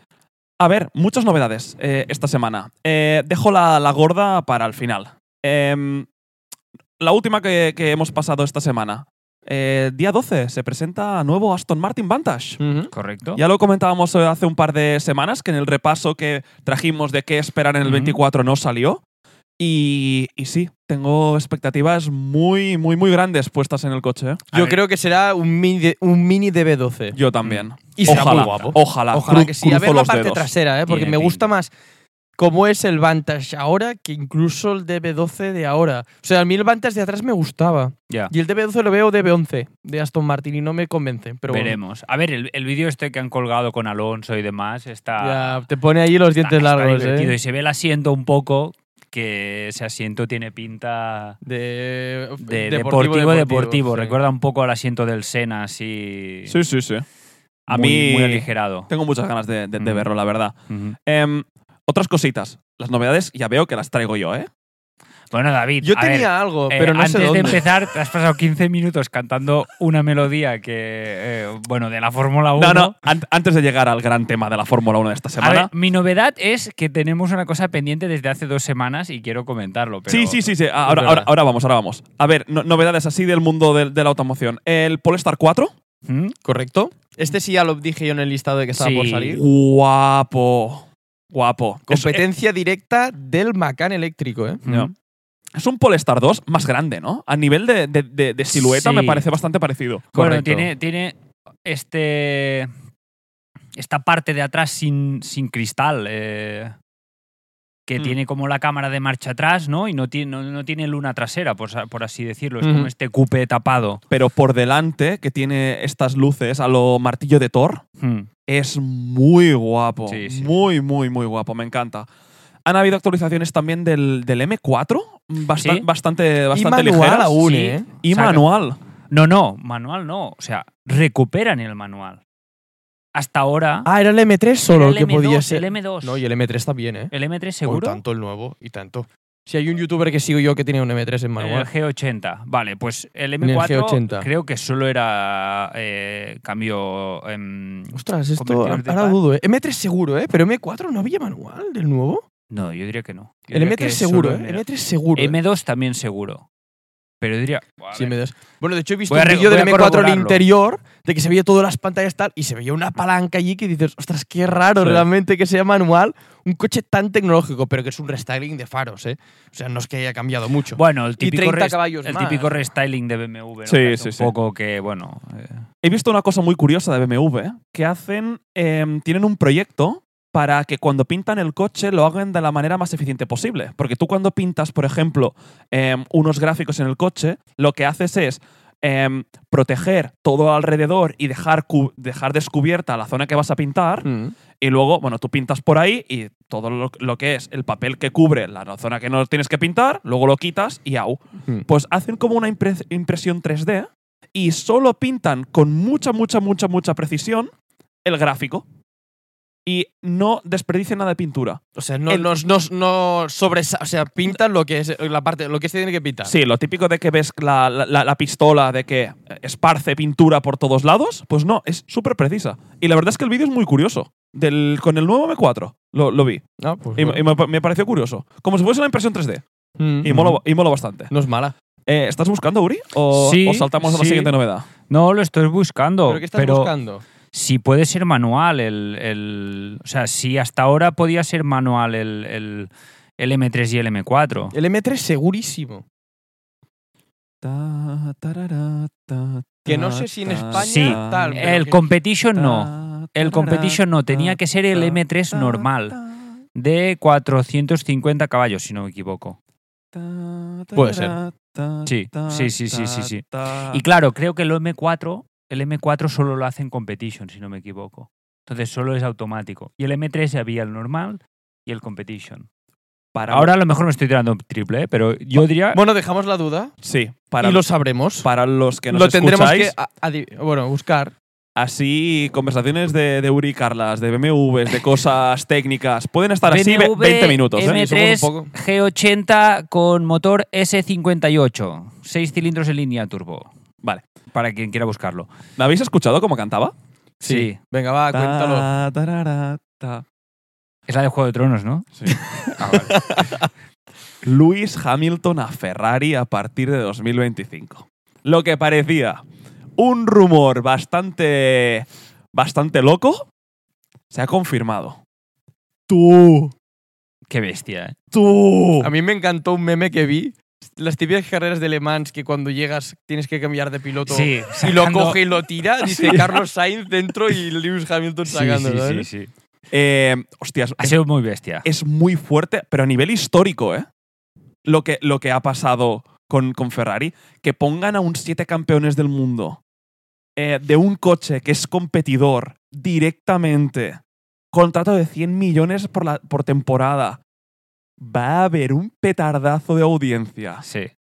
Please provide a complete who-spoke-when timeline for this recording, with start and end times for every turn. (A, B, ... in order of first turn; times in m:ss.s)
0:00.6-0:06.1 A
0:07.0-0:12.6 A
0:12.6-0:12.9 B
0:12.9-0:13.4 C
0:13.4-0:19.0 A
0:17.8-0:18.2 C
0:19.6-0:24.5 A
0:24.5-0:27.2 B
0:24.5-0:24.8 C
0:27.1-0:30.5 A
0:27.4-0:28.8 C
0:28.0-0:31.7 B
0:30.9-0:31.4 C
0:32.4-0:41.8 B
0:41.5-0:45.6 C
0:45.2-0:47.4 B
0:46.4-0:51.4 C
0:51.4-0:54.2 B
0:52.4-0:56.6 C
0:56.5-0:57.0 A
0:57.7-1:00.5 A
0:57.7-0:58.9 C
0:59.8-1:00.1 C
1:00.7-1:01.0 C
1:01.0-1:04.5 A
1:05.3-1:13.0 C
1:05.8-1:07.6 B
1:12.6-1:15.7 A
1:15.4-1:20.4 C
1:20.1-1:25.7 A
1:20.9-1:21.3 B
1:26.1-1:26.4 C
1:26.4-1:29.4 B
1:28.8-1:29.4 C
1:29.3-1:32.2 A
1:31.9-1:34.6 B
1:34.6-1:34.9 C
1:34.7-1:34.9 A
1:35.6-1:40.1 A
1:38.5-1:39.3 C
1:40.1-1:40.7 B
1:40.1-1:42.7 C
1:43.8-1:46.7 C
1:47.9-1:54.0 C
1:52.6-1:52.9 B
1:54.1-1:57.8 A
1:58.0-1:58.3 C
1:58.5-2:02.1 A
2:00.1-2:00.5 C
2:02.7-2:07.4 A
2:06.5-2:07.9 B
2:07.4-2:08.5 C
2:08.0-2:08.8 A
2:09.1-2:12.2 C
2:13.2-2:13.9 C
2:13.8-2:17.1 B
2:14.7-2:16.2 C
2:17.1-2:18.0 C
2:17.6-2:21.7 B
2:21.4-2:29.2 C
2:23.4-2:24.3 B
2:27.9-2:32.2 B
2:32.5-2:34.6 C
2:33.5-2:35.4 B
2:35.2-2:36.4 C
2:37.2-2:38.2 C
2:37.9-2:52.6 B
2:39.1-2:40.4 C
2:50.8-2:55.6 C
2:53.6-2:54.3 A
2:55.8-3:27.5 A
3:14.0-3:14.4 B
3:28.0-3:28.6 A
3:29.7-3:32.3 A
3:31.8-3:36.3 B
3:36.2-3:46.4 A
3:46.6-3:47.2 B
3:47.0-3:49.4 A
3:49.8-3:50.1 B
3:50.0-3:51.1 A
3:50.1-3:50.4 C
3:51.1-3:51.5 B
3:51.9-3:54.7 A
3:53.1-3:54.3 C
3:54.9-3:56.7 C
3:56.1-3:57.0 B
3:57.3-4:04.6 C
4:04.5-4:05.8 B
4:07.4-4:11.4 A
4:09.7-4:11.8 B
4:10.5-4:16.0 C
4:12.4-4:16.1 A
4:16.6-4:19.4 C
4:19.9-4:23.8 A
4:20.8-4:21.2 B
4:21.9-4:32.5 C
4:33.1-4:33.5 A
4:33.3-4:35.8 C
4:35.7-4:36.8 B
4:36.8-4:37.6 A
4:37.4-4:38.3 B
4:38.2-4:39.8 A
4:38.9-4:41.2 B
4:41.6-4:47.8 A
4:46.4-4:53.5 C
4:47.6-4:48.5 B
4:54.3-4:55.3 C
4:55.6-4:56.7 A
4:57.2-4:57.6 C
4:57.2-4:58.7 B
4:58.1-5:00.0 A
5:00.9-5:03.1 C
5:02.3-5:03.5 B
5:04.2-5:09.2 A
5:09.8-5:13.3 A
5:14.1-5:15.0 A
5:15.9-5:16.2 B
5:15.9-5:16.5 A
5:17.3-5:18.0 C
5:18.1-5:18.9 A
5:18.8-5:29.1 B
5:24.1-5:25.2 C
5:25.8-5:26.4 C
5:28.3-5:29.3 C
5:29.7-5:31.0 A
5:30.8-5:31.7 C
5:31.6-5:33.9 A
5:34.6-5:39.6 A
5:40.4-5:44.0 A
5:44.5-5:47.2 A
5:48.0-5:50.6 A
5:50.6-5:50.9 C